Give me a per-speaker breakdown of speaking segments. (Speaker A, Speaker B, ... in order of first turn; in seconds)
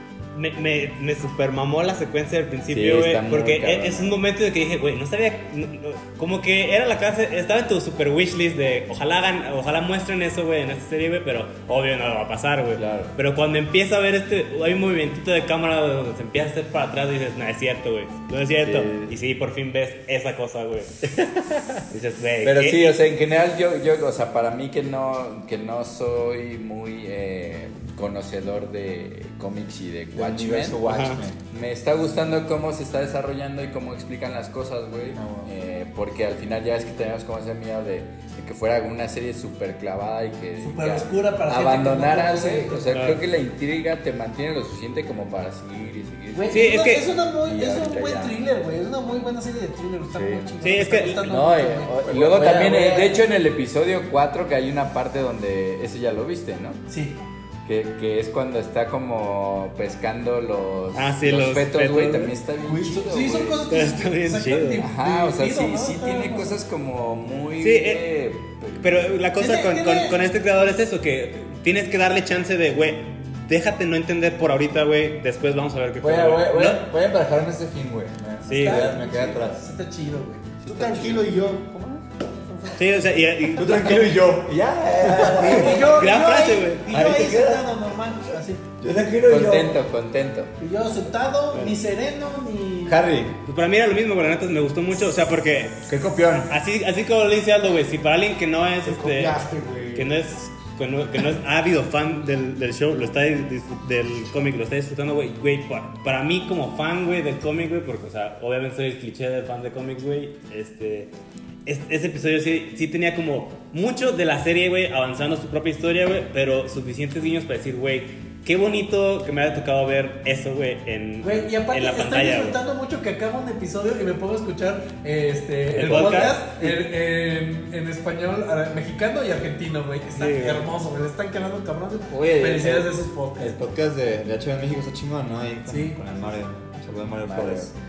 Speaker A: 0.3-20.9, 21.9-23.0, 30.9-31.2, 42.9-43.2, 46.5-47.1, 50.6-51.2, 60.9-62.3, 63.7-64.8, 67.6-68.0, 68.8-76.8, 78.5-79.0, 82.7-84.2, 85.4-86.8, 93.5-95.8, 96.5-99.4, 99.9-111.1, 111.7-122.6, 125.7-126.4, 130.1-130.7
Speaker B: 2.7-4.1, 12.7-13.1, 18.6-19.1, 22.6-30.9, 31.5-48.3, 50.1-50.5, 51.2-56.8, 57.6-63.7, 64.8-68.9, 80.7-81.2, 89.2-90.5, 137.2-137.7
Speaker C: 22.4-22.8, 30.1-31.4, 35.1-35.5, 51.9-53.2, 76.0-79.6, 83.5-86.0, 86.9-87.7, 88.8-89.8, 92.8-93.3, 95.9-96.5, 125.9-126.8, 132.1-137.7
Speaker D: 40.6-42.8, 46.3-51.9, 56.9-57.2, 62.9-66.6, 69.4-70.2, 78.5-80.5, 85.2-88.6, 90.6-93.0, 121.2-133.6, 135.7-136.0
Speaker E: 62.6-63.2, 80.6-82.8, 98.8-100.1